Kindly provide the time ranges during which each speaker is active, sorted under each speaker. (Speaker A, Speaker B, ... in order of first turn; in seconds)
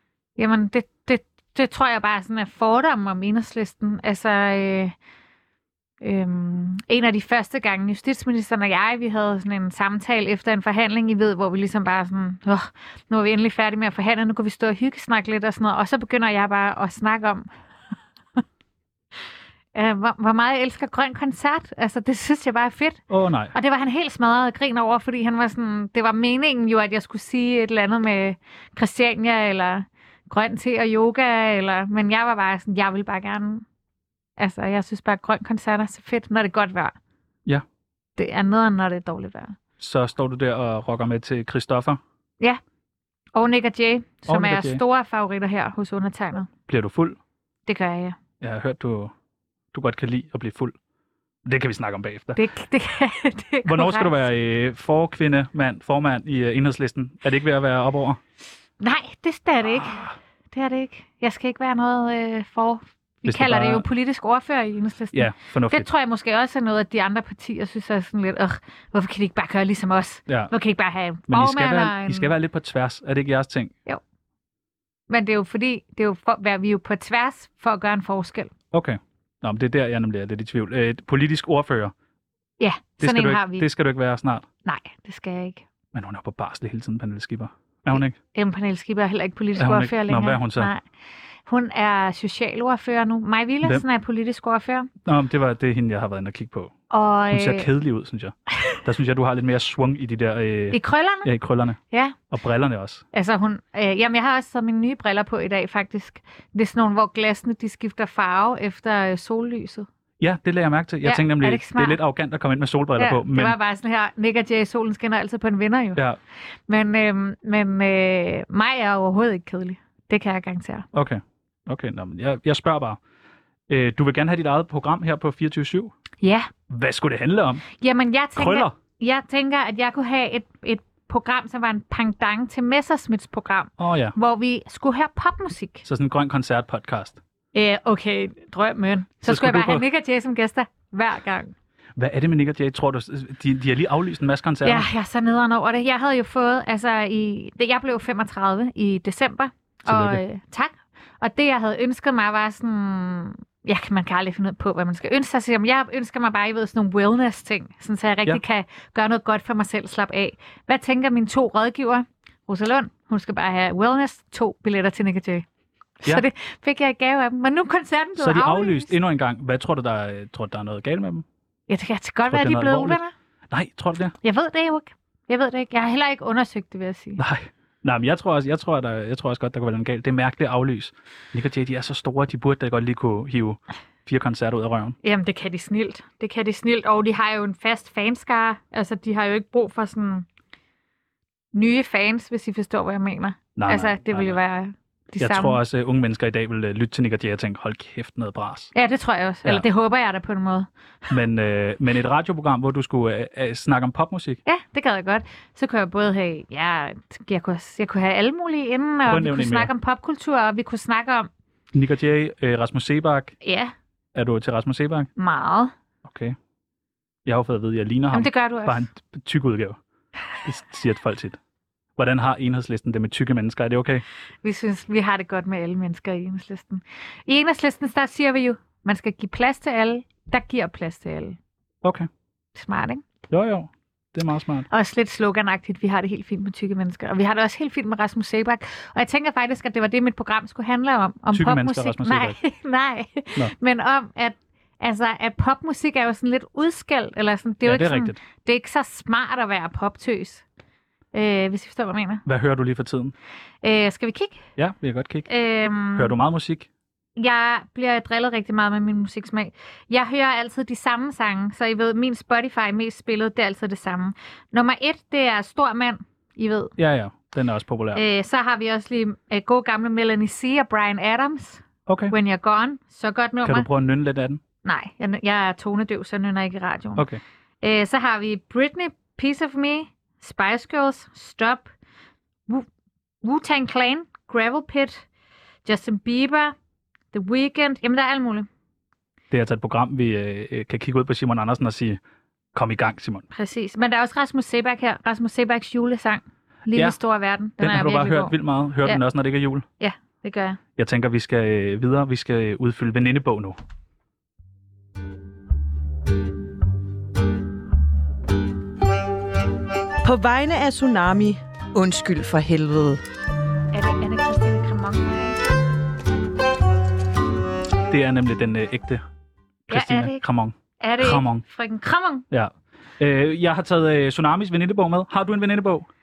Speaker A: 0.4-5.0, 6.0-17.5, 19.7-33.6, 34.4-37.0, 38.2-39.6, 43.4-46.5, 47.7-48.2, 52.4-54.2, 58.8-72.3, 75.1-78.5, 82.6-83.7, 84.7-85.6, 88.3-90.8, 91.5-94.9, 96.9-97.7, 100.7-101.3, 101.9-102.2, 103.1-109.9, 111.0-112.0, 113.0-116.0, 116.7-120.9, 126.2-126.5, 127.7-135.8, 137.5-141.5, 144.6-165.4, 166.0-168.9, 171.7-173.1, 174.2-177.2, 185.0-190.3, 191.5-195.6, 198.8-200.7, 204.5-211.3, 213.4-213.7, 215.2-215.7, 218.1-218.8, 224.4-231.4, 232.6-233.0, 234.7-250.4, 251.1-252.2, 253.6-254.4, 255.3-256.1, 257.2-266.7, 267.9-273.7, 274.6-277.1, 277.6-281.7, 283.2-285.0, 285.7-286.6, 287.1-288.5, 293.3-299.0, 299.8-300.6, 313.7-315.6, 319.7-320.2, 320.8-322.2
Speaker B: 23.1-23.5, 39.8-42.0, 44.3-44.8, 46.7-47.2, 48.4-49.1, 49.7-50.8, 51.5-52.4, 53.6-58.2, 59.8-60.1, 63.2-63.9, 65.1-65.9, 71.3-73.7, 78.7-81.9, 83.0-84.5, 85.9-88.2, 89.6-90.7, 95.1-96.7, 97.3-101.8, 102.3-103.0, 110.2-113.6, 120.9-123.0, 123.7-125.9, 126.7-127.7, 128.4-128.7, 133.8-134.2, 135.8-137.2, 139.2-139.8, 142.0-144.9, 149.9-150.2, 168.2-171.2, 172.3-173.0, 173.5-174.2, 177.2-185.0, 193.6-194.4, 195.2-198.7, 201.1-204.4, 209.1-209.7, 211.7-213.3, 214.2-215.1, 216.0-216.4, 217.3-219.8, 220.4-221.4, 222.0-224.0, 231.8-232.1, 233.3-234.7, 241.3-242.4, 247.7-248.2, 252.3-253.1, 254.6-255.3, 255.9-256.7, 266.8-268.0, 271.9-272.1, 273.4-274.4, 277.0-277.2, 289.3-292.0, 292.5-293.3, 297.6-299.6, 300.8-303.6, 317.9-319.0, 319.7-321.4, 322.3-325.9
Speaker C: 310.0-313.0